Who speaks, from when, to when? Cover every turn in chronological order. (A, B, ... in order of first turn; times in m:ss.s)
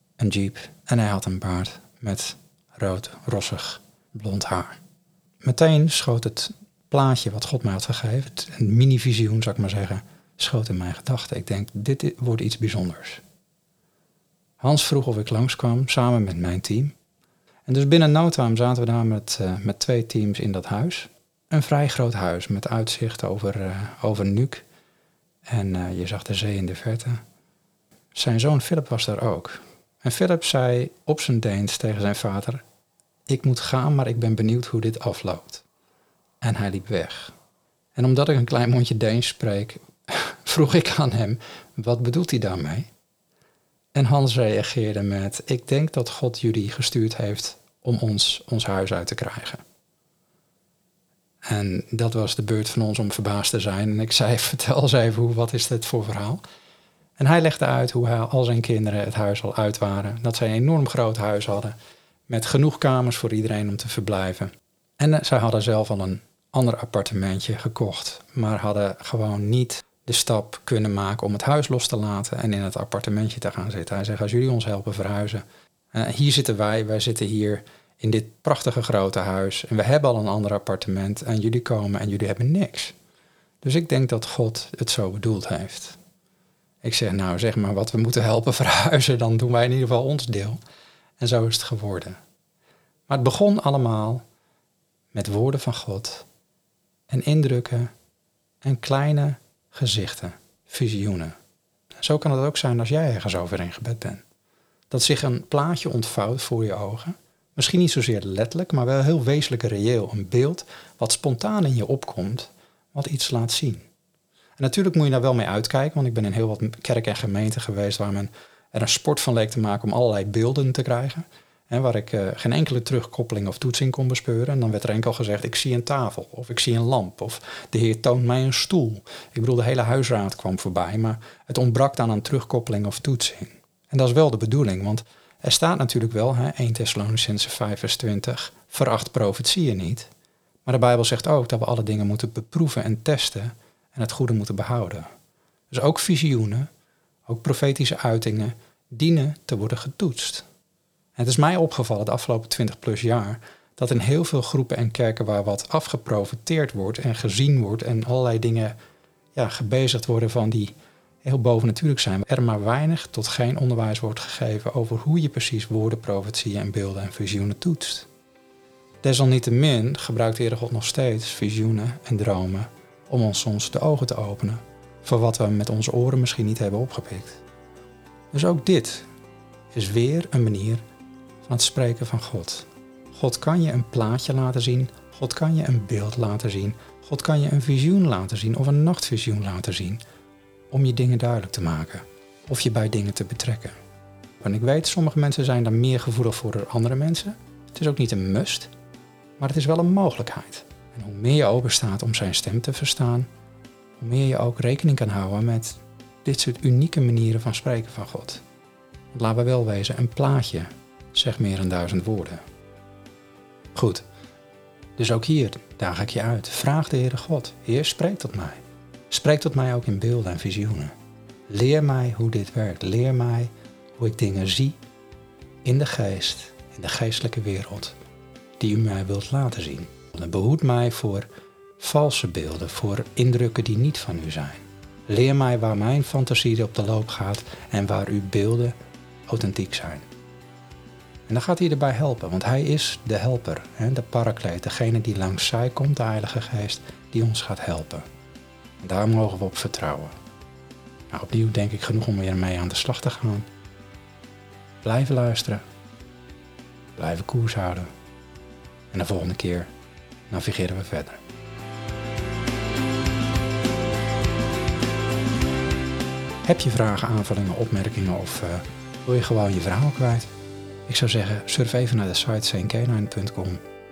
0:00.2-0:04.8 A
0:05.4-0:13.2 A
0:14.6-0:16.9 A
0:17.7-0:24.6 A
0:25.5-0:27.2 A
0:28.1-0:32.6 A
0:33.3-0:35.6 A
0:36.4-0:37.3 A
0:37.9-0:42.9 A
0:43.9-0:49.6 A
0:51.5-0:56.4 A
0:57.2-1:01.7 A
1:02.3-1:22.9 A
1:23.6-1:26.0 A
1:26.8-1:30.6 A
1:31.2-1:32.2 A
1:33.1-1:34.2 A
1:35.1-1:36.2 A
1:37.1-1:37.9 A
1:38.6-1:41.3 A
1:42.0-1:44.2 A
1:44.9-1:53.8 A
1:54.6-2:20.1 A
2:20.6-2:25.1 A
2:25.7-2:26.7 A
2:27.3-2:30.4 A
2:31.2-2:38.8 A
2:39.3-2:48.1 A
2:49.0-2:57.4 A
2:58.3-2:59.1 A
2:59.7-3:00.8 A
3:01.4-3:10.0 A
3:10.7-3:13.8 A
3:14.4-3:18.7 A
3:19.4-3:23.3 A
3:24.0-3:28.4 A
3:29.1-3:32.4 A
3:33.7-3:34.0 A
3:35.0-3:40.9 A
3:41.5-3:44.8 A
3:45.6-3:48.0 A
3:48.6-3:51.3 A
3:51.8-3:58.8 A
3:59.3-4:00.1 A
4:01.3-4:08.0 A
4:08.8-4:10.1 A
4:11.1-4:13.5 A
4:14.8-4:15.6 A
4:17.0-4:17.9 A
4:18.9-4:19.7 A
4:20.3-4:21.2 A
4:26.4-4:30.3 A
4:30.9-4:33.6 A